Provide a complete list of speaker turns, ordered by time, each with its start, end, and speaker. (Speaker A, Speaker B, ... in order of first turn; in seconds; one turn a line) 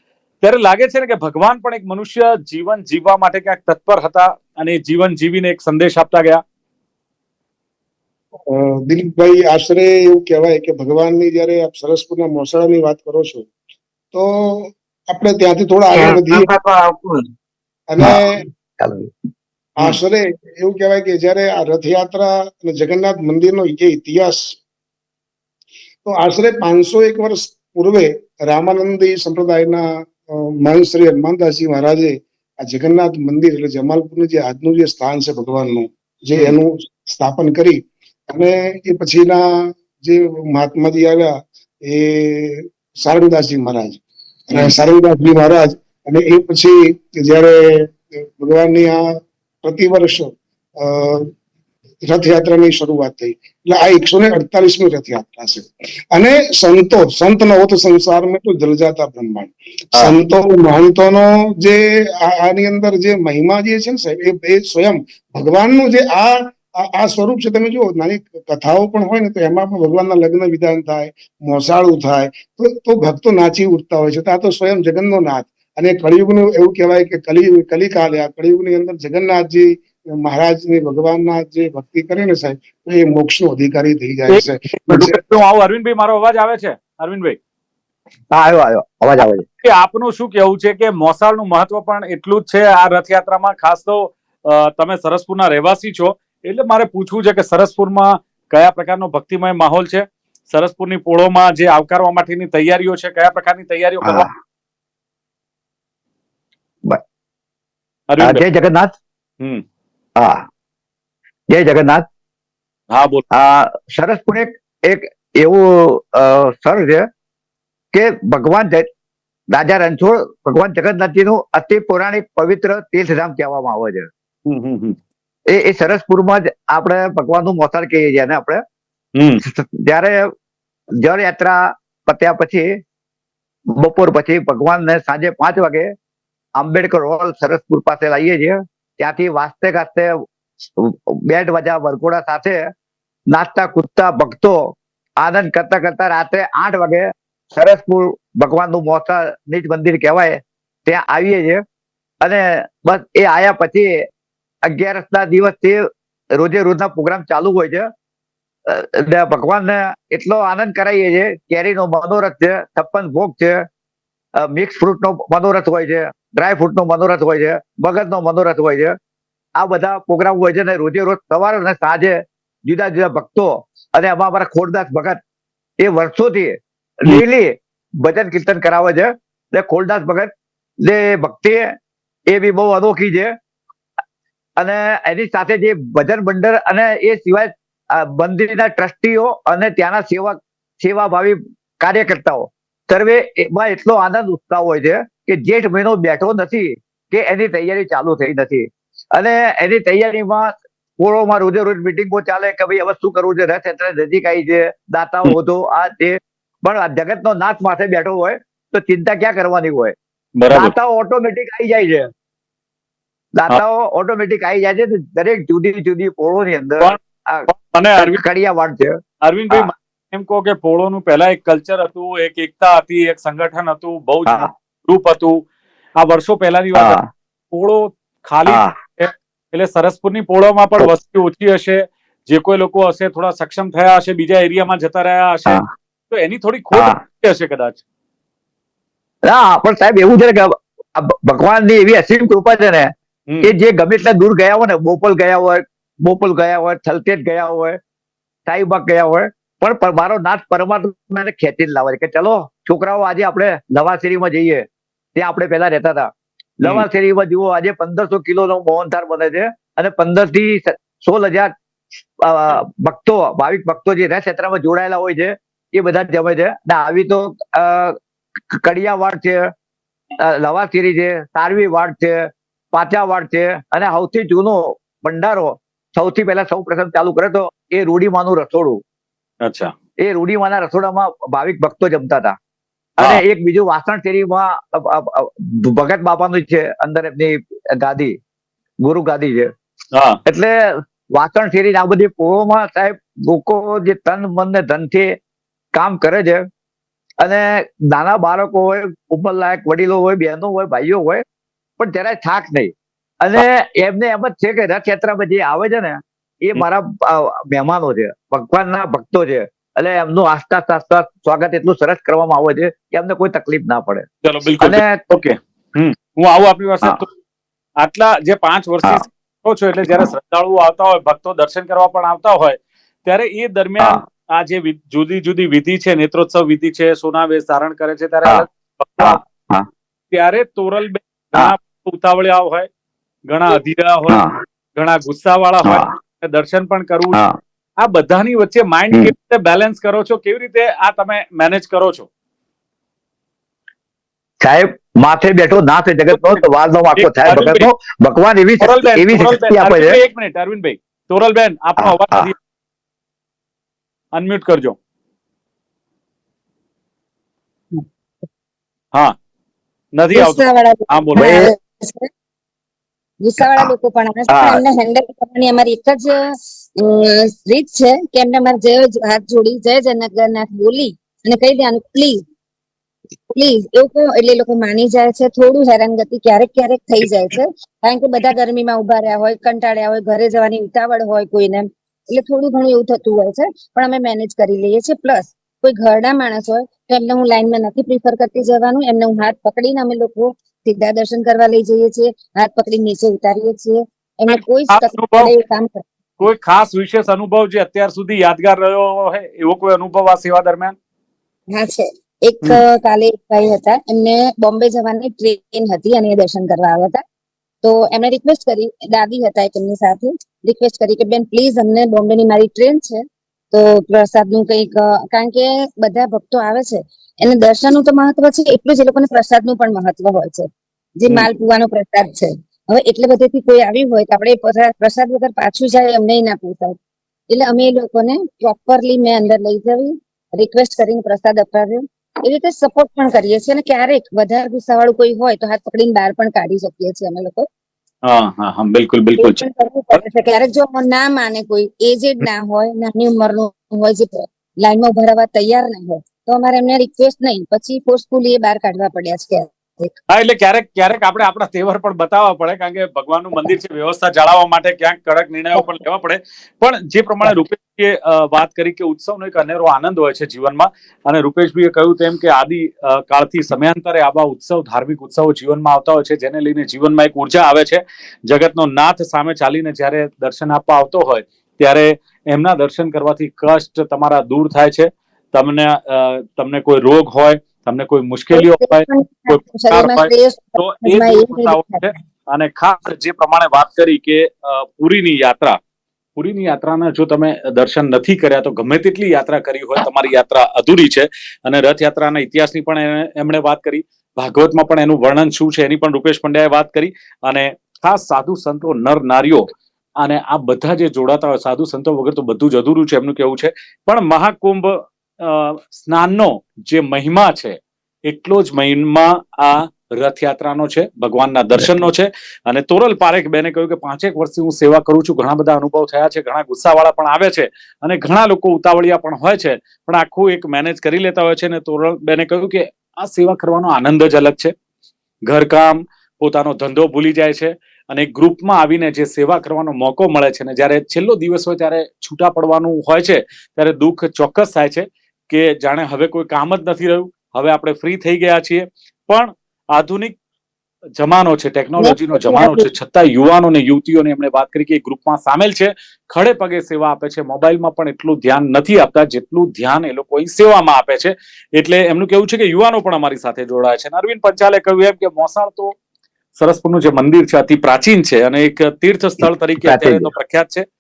Speaker A: 0.4-6.4
Speaker B: 8.5-13.5
Speaker B: 14.1-16.5
Speaker C: 15.9-17.2
Speaker B: 17.9-18.4
Speaker C: 18.0-19.1
Speaker B: 19.8-24.6
Speaker B: 26.1-39.4
Speaker B: 40.0-49.0
Speaker B: 49.6-51.3
Speaker B: 52.1-85.2
Speaker A: 84.3-87.4
Speaker C: 88.3-89.5
Speaker A: 89.6-104.3
Speaker C: 104.0-104.3
Speaker A: 108.1-108.4
Speaker C: 108.2-108.9
Speaker C: 110.2-110.5
Speaker C: 111.5-112.1
Speaker A: 112.9-113.2
Speaker C: 113.3-117.1
Speaker C: 117.9-118.9
Speaker C: 119.5-124.1
Speaker A: 124.5-125.0
Speaker C: 125.5-128.6
Speaker A: 129.2-129.4
Speaker C: 129.4-130.2
Speaker C: 131.0-132.7
Speaker C: 133.8-135.9
Speaker C: 136.6-140.1
Speaker C: 140.8-142.6
Speaker C: 143.3-151.6
Speaker C: 152.2-153.9
Speaker C: 154.7-155.8
Speaker C: 156.4-157.9
Speaker C: 158.7-163.7
Speaker C: 164.4-169.0
Speaker C: 169.6-175.2
Speaker C: 175.8-180.3
Speaker C: 180.8-181.8
Speaker C: 182.3-183.3
Speaker C: 184.6-209.9
Speaker A: 210.4-210.7
Speaker C: 210.5-212.1
Speaker C: 213.3-219.0
Speaker A: 216.8-218.2
Speaker A: 219.2-225.4
Speaker A: 226.0-227.0
Speaker C: 226.7-227.1
Speaker A: 227.5-237.8
Speaker C: 228.5-228.8
Speaker C: 236.7-237.0
Speaker C: 239.2-247.8
Speaker C: 248.5-261.5
Speaker C: 262.2-268.0
Speaker C: 268.5-269.5
Speaker C: 270.2-278.8
Speaker A: 279.4-279.7
Speaker C: 280.0-282.4
Speaker C: 283.0-288.2
Speaker C: 288.8-289.5
Speaker A: 289.9-290.2
Speaker C: 290.3-295.2
Speaker C: 295.7-296.4
Speaker C: 297.2-301.2
Speaker C: 301.8-314.1
Speaker A: 314.2-317.1
Speaker C: 314.6-315.0
Speaker A: 317.8-329.2
Speaker C: 329.0-329.7
Speaker A: 330.1-332.7
Speaker A: 333.3-334.2
Speaker C: 334.1-334.4
Speaker A: 334.8-337.2
Speaker C: 335.6-335.9
Speaker C: 337.1-337.4
Speaker A: 337.8-342.1
Speaker C: 344.4-350.0
Speaker A: 346.1-346.4
Speaker A: 347.0-347.7
Speaker A: 348.6-352.4
Speaker C: 351.8-352.3
Speaker A: 354.1-354.8
Speaker A: 360.0-361.5
Speaker D: 360.1-362.1
Speaker C: 361.2-361.5
Speaker D: 363.2-366.2
Speaker C: 364.3-364.6
Speaker D: 366.8-372.2
Speaker D: 373.3-395.9
Speaker A: 394.3-395.3
Speaker A: 396.2-400.8
Speaker D: 401.5-407.0
Speaker D: 407.6-413.0
Speaker D: 413.5-426.8
Speaker D: 427.3-437.5
Speaker A: 438.1-439.4
Speaker D: 439.2-449.9
Speaker A: 450.1-485.6
Speaker D: 478.3-481.9
Speaker A: 486.2-524.5
Speaker A: 525.3-540.2
Speaker A: 541.0-555.7
Speaker D: 541.8-542.7
Speaker A: 556.4-560.6
Speaker C: 559.6-560.1